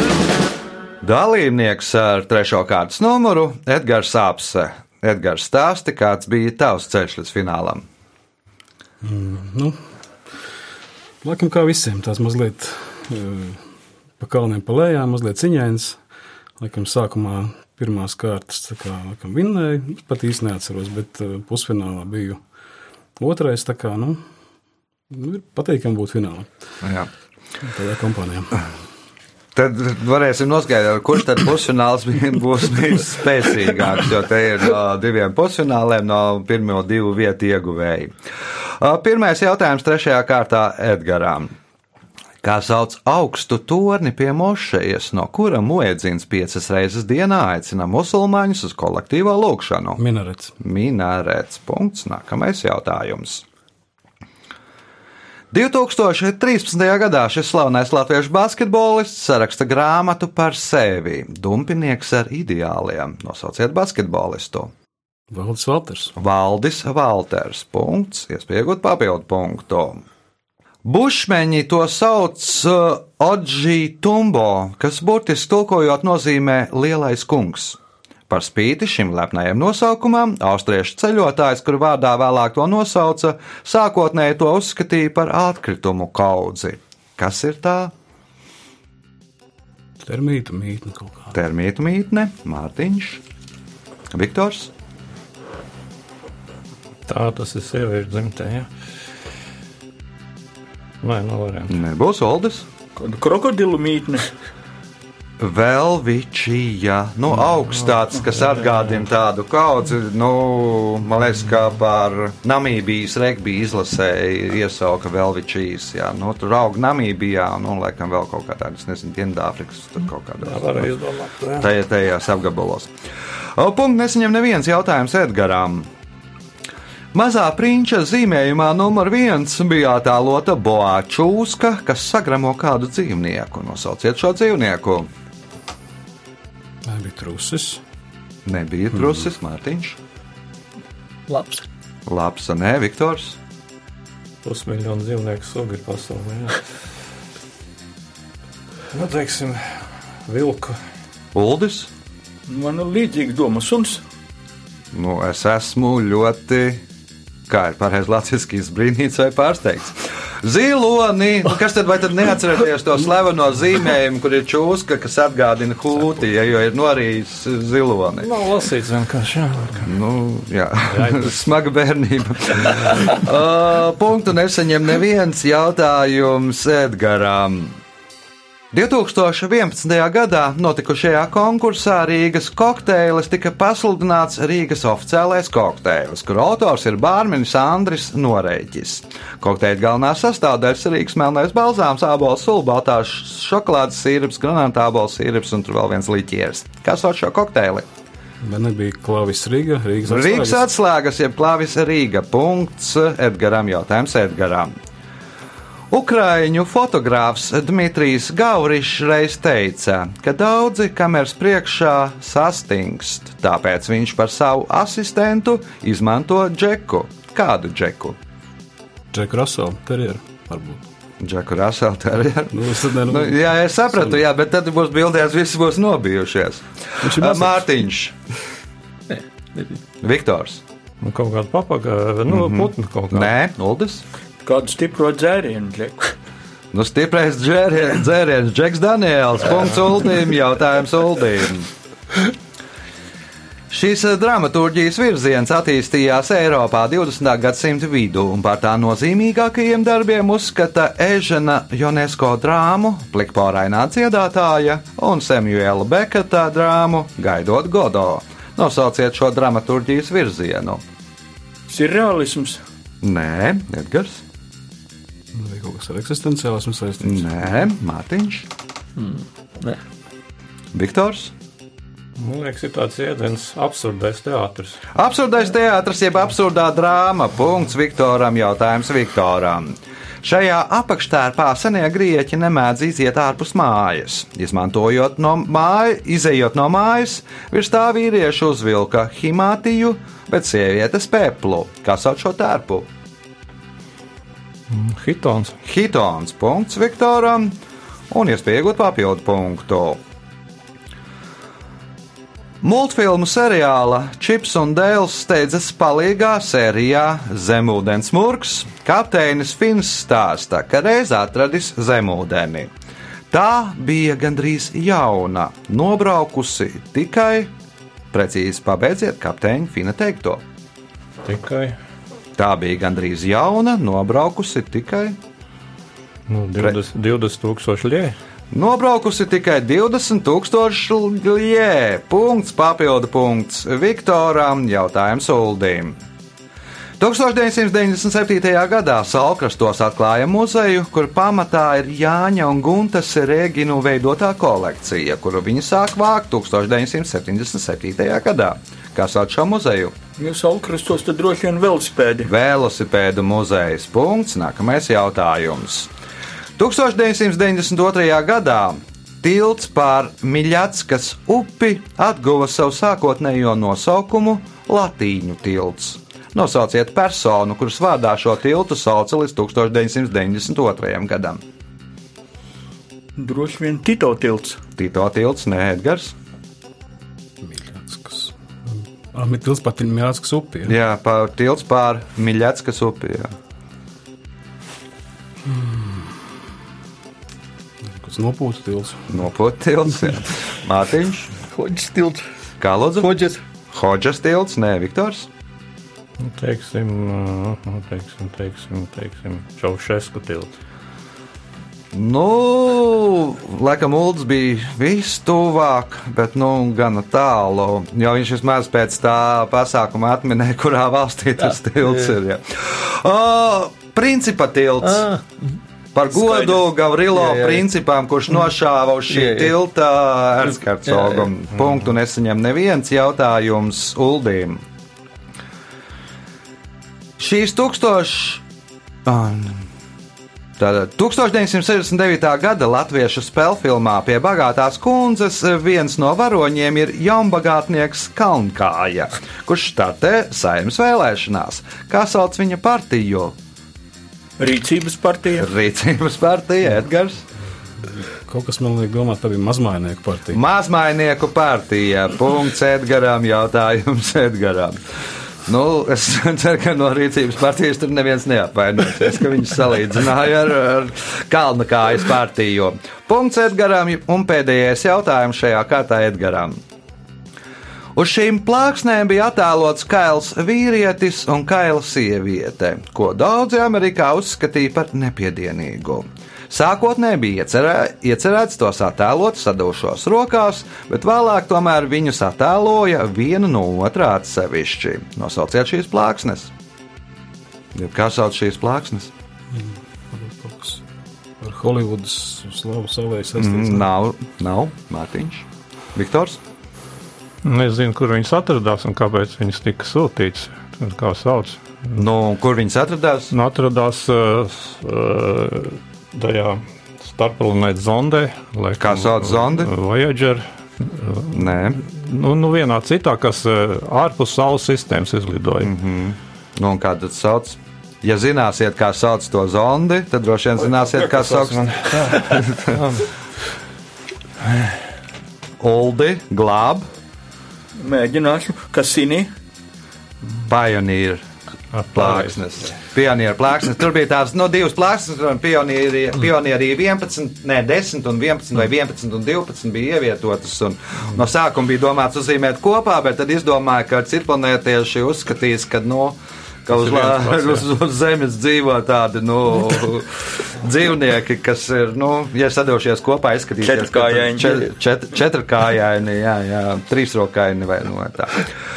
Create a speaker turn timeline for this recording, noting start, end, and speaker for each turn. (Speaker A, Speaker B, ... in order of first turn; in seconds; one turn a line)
Speaker A: 1.0-7.8
Speaker B: 9.0-9.8
Speaker B: 11.2-13.6
Speaker B: 14.2-16.0
Speaker B: 16.6-22.4
Speaker B: 23.2-24.2
Speaker B: 25.1-26.5
Speaker A: 26.8-27.1
Speaker B: 27.6-28.6
Speaker A: 29.5-38.1
Speaker A: 38.8-41.5
Speaker A: 42.4-50.0
Speaker B: 50.0-50.5
Speaker A: 50.6-53.4
Speaker A: 55.5-64.7
Speaker B: 65.3-66.1
Speaker A: 66.2-70.0
Speaker A: 70.8-77.8
Speaker A: 78.3-87.9
Speaker B: 90.0-91.3
Speaker A: 91.3-93.2
Speaker A: 94.1-94.7
Speaker C: 97.1-98.7
Speaker C: 101.0-101.7
Speaker A: 101.7-102.7
Speaker D: 103.0-104.3
Speaker A: 105.4-120.9
Speaker C: 120.4-121.7
Speaker A: 121.6-122.9
Speaker A: 123.5-125.9
Speaker A: 127.1-135.1
Speaker B: 136.8-137.8
Speaker A: 138.4-140.0
Speaker E: 141.3-141.6
Speaker A: 142.1-143.4
Speaker C: 144.4-146.6
Speaker C: 148.9-150.8
Speaker A: 151.3-151.9
Speaker D: 152.5-154.0
Speaker A: 154.9-156.8
Speaker A: 157.5-168.3
Speaker C: 168.2-169.9
Speaker A: 169.8-177.8
Speaker C: 170.9-171.3
Speaker A: 178.7-197.9
Speaker B: 198.4-200.7
Speaker A: 200.1-204.7
Speaker A: 205.9-218.2
Speaker B: 219.1-220.8
Speaker A: 221.2-228.2
Speaker B: 222.5-224.2
Speaker B: 227.0-227.7
Speaker E: 229.1-229.8
Speaker A: 230.0-230.6
Speaker C: 231.0-233.3
Speaker A: 232.3-234.0
Speaker D: 234.4-236.1
Speaker A: 236.7-241.7
Speaker A: 243.7-260.8
Speaker D: 261.7-262.6
Speaker A: 263.0-264.2
Speaker B: 265.3-267.6
Speaker A: 267.0-268.4
Speaker E: 268.9-269.8
Speaker A: 270.7-271.3
Speaker C: 272.2-274.8
Speaker A: 274.9-292.9
Speaker C: 294.7-295.6
Speaker A: 295.6-297.6
Speaker A: 298.1-300.0
Speaker A: 302.6-312.7
Speaker A: 313.3-317.5
Speaker A: 318.1-320.4
Speaker C: 321.2-321.8
Speaker A: 322.4-325.2
Speaker C: 326.3-328.2
Speaker A: 328.5-336.0
Speaker A: 337.0-349.9
Speaker D: 350.2-352.3
Speaker A: 352.2-355.9
Speaker A: 356.6-371.4
Speaker D: 373.1-374.6
Speaker A: 374.8-376.1
Speaker B: 377.4-380.7
Speaker A: 380.6-383.3
Speaker B: 385.4-386.3
Speaker B: 387.8-389.2
Speaker A: 389.1-391.3
Speaker E: 391.5-392.2
Speaker A: 392.6-393.1
Speaker E: 393.0-393.4
Speaker A: 393.7-395.3
Speaker C: 396.2-400.5
Speaker A: 401.9-415.1
Speaker E: 411.4-412.1
Speaker E: 414.8-415.3
Speaker A: 415.9-424.6
Speaker D: 416.1-416.6
Speaker E: 417.1-417.7
Speaker E: 419.1-419.5
Speaker E: 420.9-421.2
Speaker A: 427.2-428.4
Speaker A: 429.1-429.6
Speaker A: 430.6-443.3
Speaker D: 444.4-445.5
Speaker A: 445.4-447.2
Speaker B: 447.8-450.4
Speaker A: 450.3-454.8
Speaker A: 455.4-466.6
Speaker A: 467.9-486.5
Speaker A: 487.7-489.1
Speaker B: 489.5-490.8
Speaker B: 491.4-493.9
Speaker A: 493.4-496.4
Speaker C: 497.4-502.0
Speaker A: 502.0-503.3
Speaker C: 503.3-515.7
Speaker A: 508.8-509.7
Speaker A: 511.3-511.8
Speaker A: 515.6-522.8
Speaker C: 521.0-523.1
Speaker A: 525.6-526.9
Speaker D: 527.8-529.3
Speaker A: 530.4-531.2
Speaker C: 531.7-532.3
Speaker A: 531.9-558.5
Speaker C: 547.2-547.5
Speaker D: 553.6-554.7